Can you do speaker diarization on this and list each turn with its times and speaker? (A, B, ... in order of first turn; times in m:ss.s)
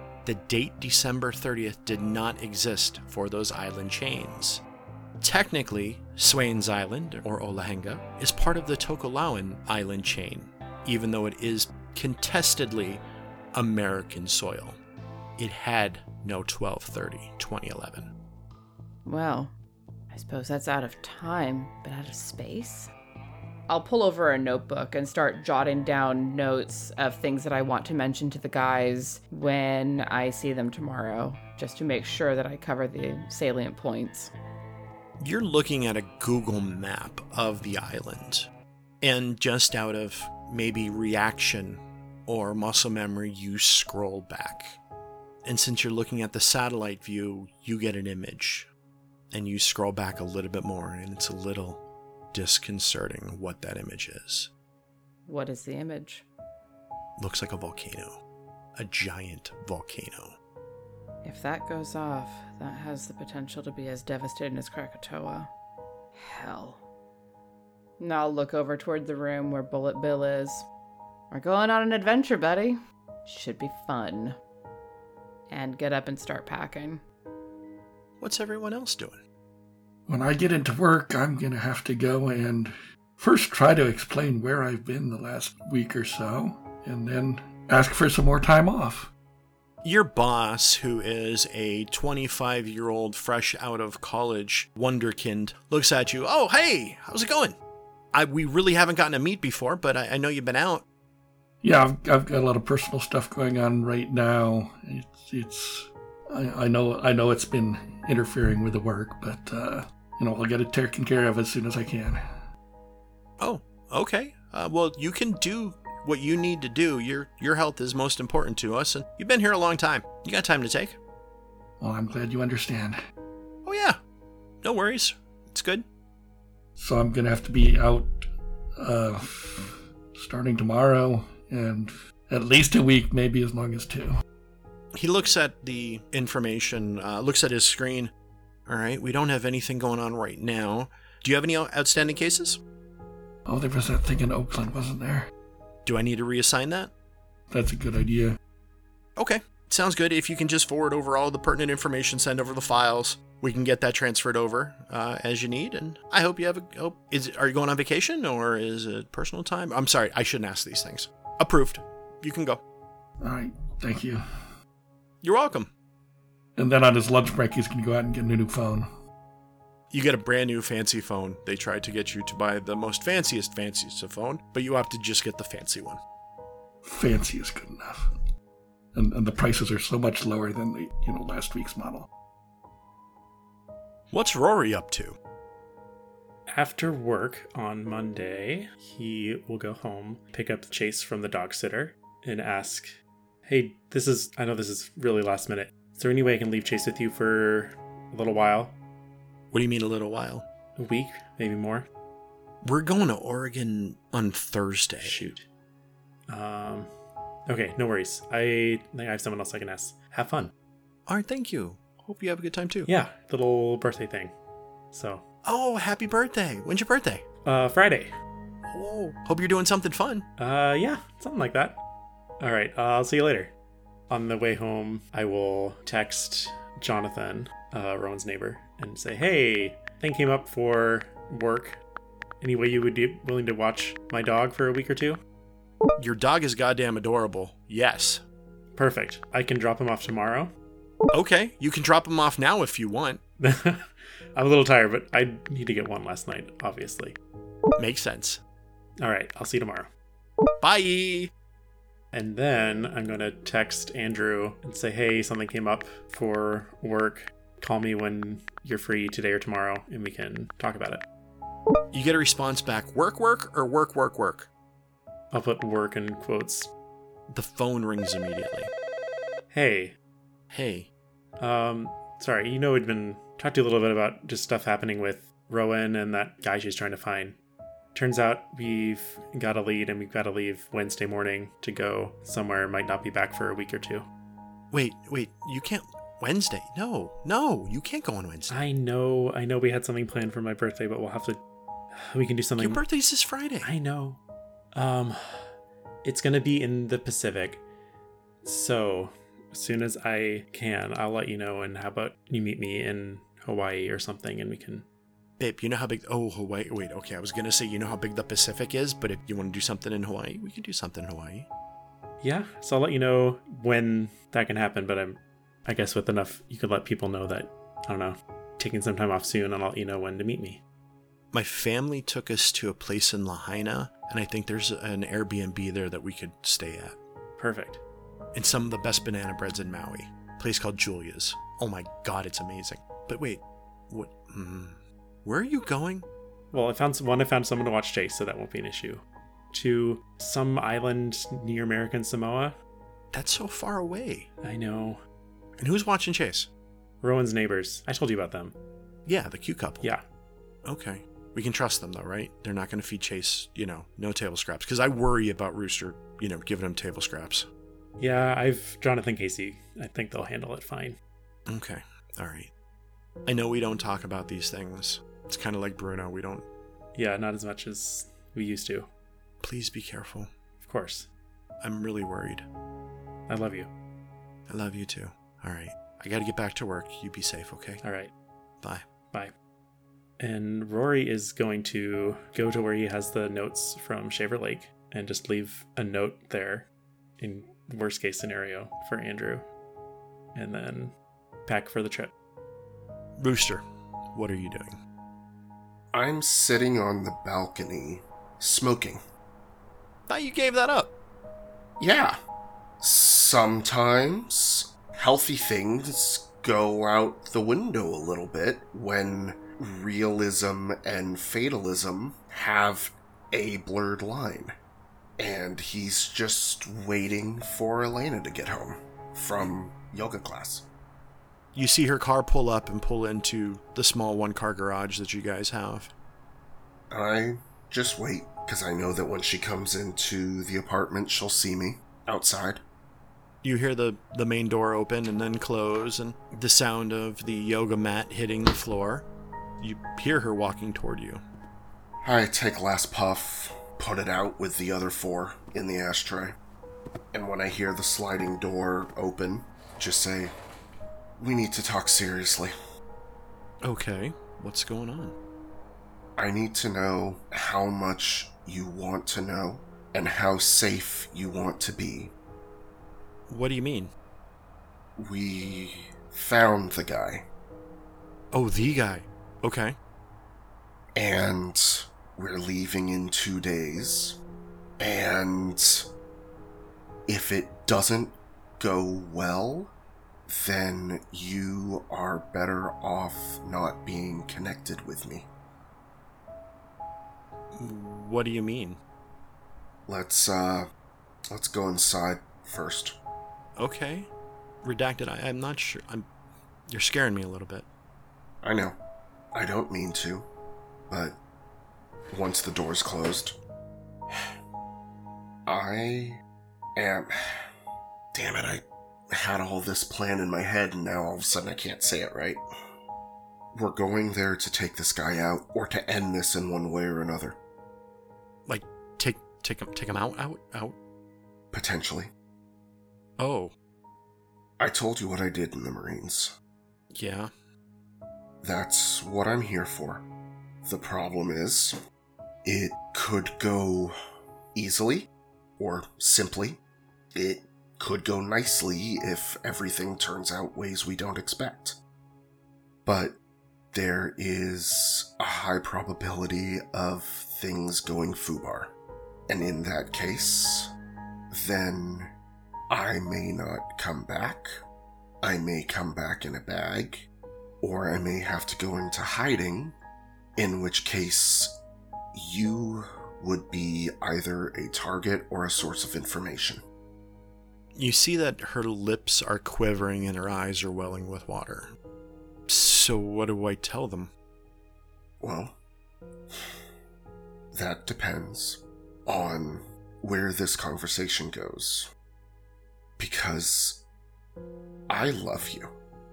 0:00.2-0:04.6 A
0:05.2-0:13.0 A
0:13.5-0:14.8 A
0:15.4-0:18.1 A
0:19.0-0:19.5 B
0:20.1-0:22.9 B
0:23.7-0:34.3 B
0:35.2-0:38.5 A
0:39.0-0:44.8 A
0:45.4-0:48.7 A
0:49.3-0:51.8 A
0:52.3-0:54.5 A
0:55.2-0:56.2 B
0:57.2-0:58.2 A
0:58.8-1:00.4 A
1:01.2-1:05.5 B
1:06.2-1:06.8 B
1:08.0-1:10.6 B
1:11.3-1:14.4 B
1:15.5-1:17.0 B
1:18.2-1:19.2 A
1:20.1-1:29.1 C
1:29.8-1:37.6 A
1:38.1-1:40.8 A
1:41.6-1:52.2 C
1:53.4-2:01.0 A
2:01.8-2:03.0 C
2:03.6-2:04.0 A
2:04.6-2:05.8 A
2:06.8-2:08.3 C
2:08.8-2:14.1 C
2:14.9-2:18.1 A
2:18.7-2:22.6 A
2:23.5-2:25.3 C
2:25.8-2:26.9 A
2:27.5-2:28.3 C
2:29.2-2:42.6 A
2:43.2-2:44.2 C
2:45.2-2:45.7 A
2:46.6-2:48.9 C
2:49.9-2:56.0 A
2:56.8-2:58.1 C
2:58.9-3:02.1 C
3:04.1-3:05.2 A
3:06.5-3:12.9 D
3:13.5-3:18.7 D
3:19.5-3:20.4 A
3:20.8-3:21.9 D
3:22.6-3:25.3 A
3:25.0-3:25.4 D
3:26.3-3:26.9 D
3:27.5-3:30.5 D
3:31.1-3:32.9 A
3:32.8-3:34.3 D
3:34.9-3:35.2 D
3:35.4-3:37.2 A
3:37.4-3:38.1 D
3:38.7-3:40.2 A
3:40.4-3:41.8 D
3:42.4-3:43.5 D
3:44.1-3:51.8 D
3:52.4-3:55.2 D
3:56.0-3:58.2 A
3:58.7-4:00.5 D
4:01.1-4:03.2 A
4:03.4-4:07.2 D
4:07.8-4:08.4 A
4:09.0-4:09.9 D
4:10.6-4:11.3 A
4:12.1-4:21.0 D
4:21.9-4:24.5 A
4:25.3-4:26.7 D
4:27.3-4:28.7 A
4:29.5-4:30.0 D
4:30.5-4:30.9 A
4:31.4-4:37.4 D
4:37.9-4:44.0 D
4:44.7-4:48.6 A
4:48.5-4:51.4 D
4:51.9-4:52.8 D
4:52.6-4:53.7 A
4:53.6-4:54.2 D
4:54.7-4:55.5 D
4:56.0-4:57.6 D
4:58.4-5:04.8 D
5:05.4-5:11.5 A
5:12.2-5:20.6 D
5:21.3-5:27.0 A
5:27.4-5:27.8 D
5:28.3-5:36.0 A
5:36.5-5:42.6 D
5:43.1-5:44.3 A
5:44.4-5:45.0 D
5:45.6-5:46.5 A
5:47.0-5:48.5 D
5:49.0-5:49.8 A
5:50.6-5:57.5 A
5:58.0-6:01.0 D
6:01.5-6:02.5 A
6:03.2-6:06.4 A
6:06.9-6:08.9 D
6:09.4-6:10.3 A
6:10.6-6:11.1 D
6:11.6-6:12.4 A
6:13.3-6:13.7 D
6:14.5-6:17.8 A
6:17.8-6:18.1 D
6:20.2-6:26.7 D
6:27.2-6:29.4 D
6:30.3-6:30.9 D
6:31.4-6:32.1 D
6:33.2-6:34.8 A
6:35.9-6:39.0 E
6:40.1-6:40.9 A
6:41.8-6:42.2 E
6:42.8-6:54.5 E
6:55.2-7:00.6 E
7:01.5-7:05.9 A
7:06.9-7:12.6 E
7:13.4-7:19.1 A
7:19.6-7:21.2 A
7:22.0-7:26.4 E
7:27.1-7:30.3 E
7:31.2-7:32.5 E
7:33.6-7:35.1 A
7:36.2-7:42.1 E
7:43.3-7:43.9 A
7:45.0-7:47.2 E
7:48.3-7:49.8 A
7:51.0-7:54.2 E
7:54.8-7:55.9 E
7:57.1-7:59.7 E
8:00.3-8:05.3 E
8:07.6-8:08.8 A
8:09.9-8:10.7 E
8:11.3-8:13.0 E
8:13.6-8:14.1 A
8:14.6-8:16.1 A
8:16.7-8:17.6 A
8:18.4-8:18.8 E
8:19.3-8:20.3 E
8:20.9-8:21.2 E
8:22.1-8:23.4 E
8:25.5-8:26.2 E
8:26.8-8:27.1 E
8:28.1-8:32.4 E
8:33.5-8:37.4 E
8:38.5-8:40.7 A
8:41.5-8:42.1 E
8:43.2-8:43.5 A
8:44.6-8:46.3 E
8:46.9-8:47.3 A
8:48.4-8:50.0 E
8:50.6-8:51.8 E
8:52.4-8:53.9 E
8:54.5-8:56.6 E
8:57.1-9:01.8 E
9:02.8-9:03.1 E
9:03.7-9:08.7 E
9:09.3-9:10.7 E
9:11.3-9:12.1 E
9:12.7-9:14.5 E
9:15.2-9:17.1 E
9:17.6-9:19.8 E
9:20.4-9:21.5 E
9:22.1-9:26.6 E
9:27.8-9:31.7 A
9:32.5-9:34.1 A
9:35.2-9:35.6 E
9:37.5-9:41.9 E
9:43.0-9:43.8 E
9:44.9-9:45.7 E